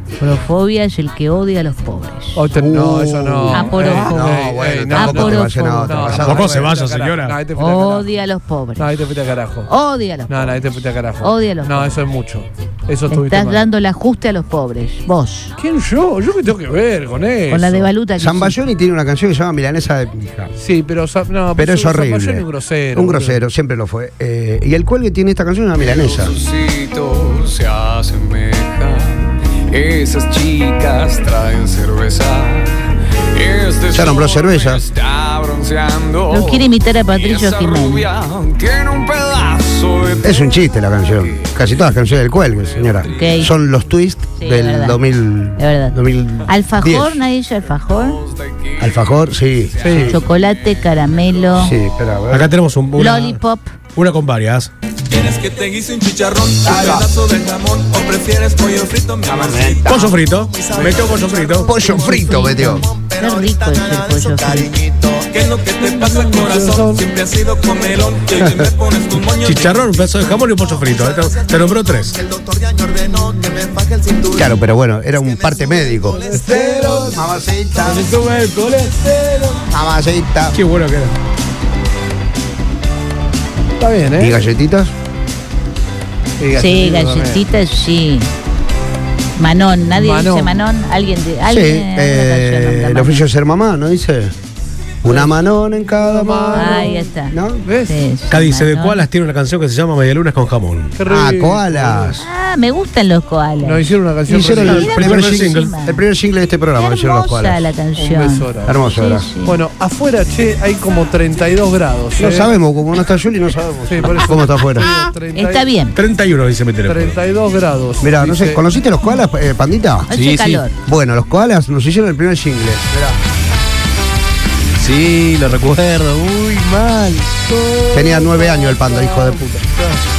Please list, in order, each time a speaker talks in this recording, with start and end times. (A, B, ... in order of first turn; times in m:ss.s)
0:00.2-0:02.4 A
0:02.3-0:08.1 B
0:02.5-0:06.7 C
0:03.5-0:04.4 A
0:04.9-0:06.2 A
0:06.2-0:07.4 D
0:07.6-0:08.9 A
0:08.8-0:09.7 B
0:09.7-0:10.6 A
0:10.3-0:13.7 B
0:11.2-0:12.0 A
0:13.1-0:15.5 A
0:15.6-0:17.9 B
0:17.5-0:18.6 A
0:18.2-0:20.5 C
0:20.6-0:23.4 B
0:21.5-0:26.3 C
0:26.2-0:29.2 E
0:29.7-0:32.8 E
0:33.3-0:36.6 E
0:33.9-0:34.8 C
0:36.3-0:38.0 A
0:37.1-0:40.3 E
0:40.2-0:47.2 C
0:42.8-0:43.3 E
0:43.1-0:43.5 A
0:44.4-0:45.0 A
0:45.6-0:48.2 A
0:48.4-0:48.9 E
0:48.8-0:50.2 C
0:49.8-0:50.1 E
0:49.8-0:50.2 B
0:50.1-0:51.8 A
0:51.5-0:52.5 C
0:52.3-0:53.4 D
0:52.9-0:53.7 A
0:53.9-0:54.7 D
0:55.1-1:16.9 E
0:56.6-0:57.1 C
0:59.2-1:00.2 C
0:59.9-1:01.8 D
1:01.6-1:02.8 C
1:01.9-1:04.7 A
1:05.8-1:07.0 B
1:08.4-1:08.6 C
1:09.4-1:12.2 D
1:14.3-1:16.2 C
1:16.0-1:17.1 B
1:16.3-1:17.1 D
1:17.0-1:18.1 C
1:17.8-1:19.1 D
1:17.9-1:18.8 E
1:19.7-1:20.6 C
1:20.5-1:21.1 D
1:23.8-1:24.4 B
1:24.2-1:24.9 C
1:26.4-1:27.4 B
1:26.6-1:28.3 A
1:29.4-1:33.3 A
1:29.9-1:30.6 B
1:31.4-1:34.3 C
1:35.0-1:37.6 C
1:35.9-1:38.0 B
1:36.5-1:39.0 A
1:38.3-1:41.0 D
1:41.0-1:42.2 B
1:41.1-1:42.2 C
1:42.2-1:44.0 A
1:43.6-1:45.0 B
1:44.3-1:47.6 C
1:44.6-1:46.0 A
1:44.6-1:45.7 D
1:46.8-1:49.6 A
1:48.0-1:48.8 B
1:48.6-1:49.2 C
1:49.4-1:52.5 B
1:52.2-1:54.9 C
1:53.9-1:55.7 B
1:55.3-1:56.0 A
1:55.9-1:57.2 D
1:56.8-1:58.6 B
1:58.0-2:00.1 C
2:00.1-2:00.7 A
2:00.1-2:00.6 F
2:00.8-2:03.2 C
2:04.8-2:07.4 F
2:07.5-2:10.0 B
2:07.9-2:09.6 C